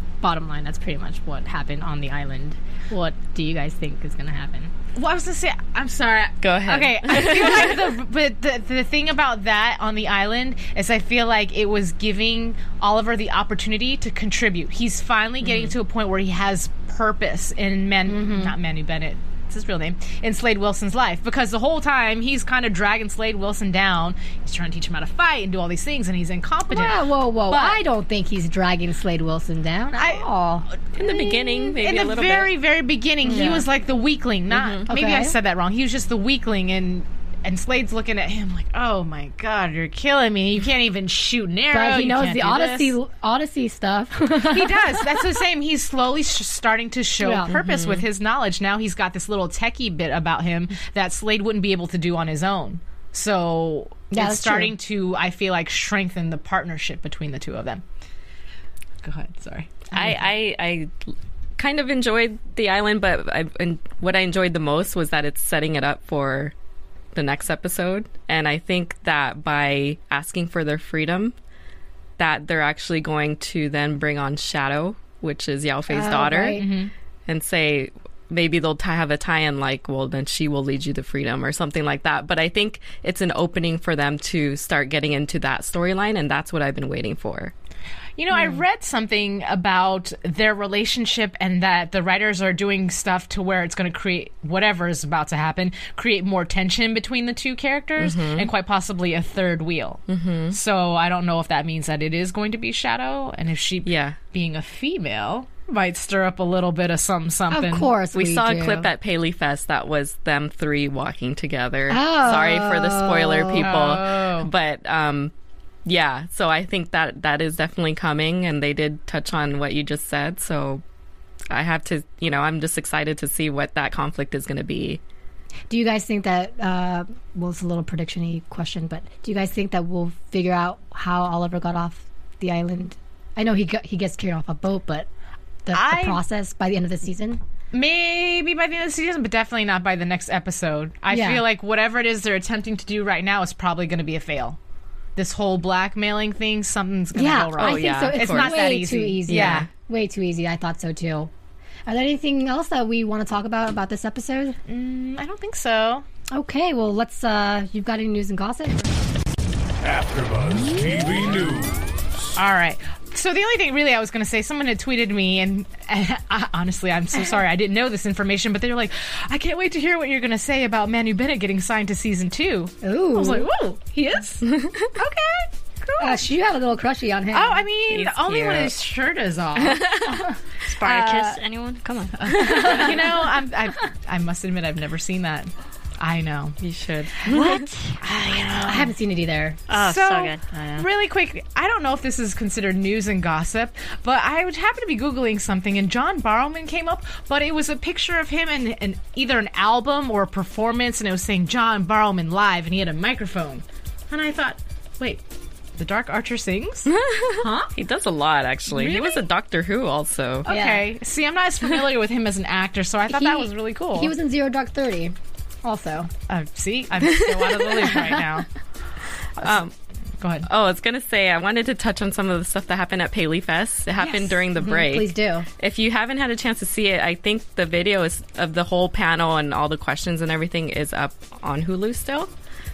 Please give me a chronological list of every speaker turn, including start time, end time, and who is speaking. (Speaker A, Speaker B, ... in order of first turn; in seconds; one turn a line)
Speaker A: 0.2-4.7
Speaker B: 4.9-27.8
Speaker C: 6.4-7.8
Speaker C: 15.4-15.7
Speaker A: 18.1-18.5
Speaker A: 26.7-30.7
Speaker B: 29.9-30.2
Speaker C: 30.9-32.5
Speaker B: 31.0-42.9
Speaker A: 33.2-33.7
Speaker C: 34.5-34.9
Speaker A: 34.9-35.4
Speaker A: 41.7-45.2
Speaker B: 44.4-57.8
Speaker A: 47.2-47.5
Speaker C: 47.5-48.0
Speaker A: 54.1-54.7
Speaker B: 59.0-60.1
Speaker C: 59.9-66.5
Speaker C: 67.1-71.3
Speaker C: 72.2-76.6
Speaker A: 75.9-76.7
Speaker B: 76.6-76.9
Speaker C: 77.3-87.5
Speaker B: 88.2-107.9
Speaker C: 98.0-98.5
Speaker C: 100.1-100.6
Speaker C: 103.8-104.2
Speaker A: 107.5-108.9
Speaker C: 108.1-115.3
Speaker A: 111.9-113.8
Speaker B: 113.6-114.5
Speaker C: 115.8-120.8
Speaker C: 121.5-125.0
Speaker A: 125.7-135.1
Speaker A: 135.7-137.4
Speaker B: 135.7-136.2
Speaker B: 137.7-144.6
Speaker A: 141.1-141.4
Speaker B: 145.2-149.7
Speaker A: 147.1-151.3
Speaker C: 147.6-148.7
Speaker C: 149.3-149.7
Speaker A: 151.8-154.6
Speaker B: 154.7-156.0
Speaker A: 156.3-159.0
Speaker D: 159.8-162.1
Speaker B: 162.3-176.2
Speaker A: 172.8-173.5
Speaker C: 174.4-174.9
Speaker A: 176.0-177.7
Speaker B: 177.3-179.9
Speaker C: 177.9-178.7
Speaker C: 179.6-180.2
Speaker E: 180.6-182.9
Speaker B: 182.2-186.6
Speaker A: 182.3-183.1
Speaker C: 186.6-187.6
Speaker B: 187.2-188.9
Speaker A: 188.7-189.6
Speaker E: 189.7-190.4
Speaker B: 189.7-205.2
Speaker A: 190.5-190.8
Speaker B: 205.8-206.9
Speaker C: 206.9-210.5
Speaker A: 207.4-207.7
Speaker B: 208.7-209.2
Speaker B: 210.4-214.1
Speaker A: 210.5-210.8
Speaker A: 213.1-216.1
Speaker B: 216.3-218.5
Speaker C: 217.4-217.8
Speaker A: 217.9-218.2
Speaker C: 219.4-219.7
Speaker B: 220.2-220.5
Speaker C: 220.4-232.3
Speaker B: 224.0-224.3
Speaker A: 224.6-225.5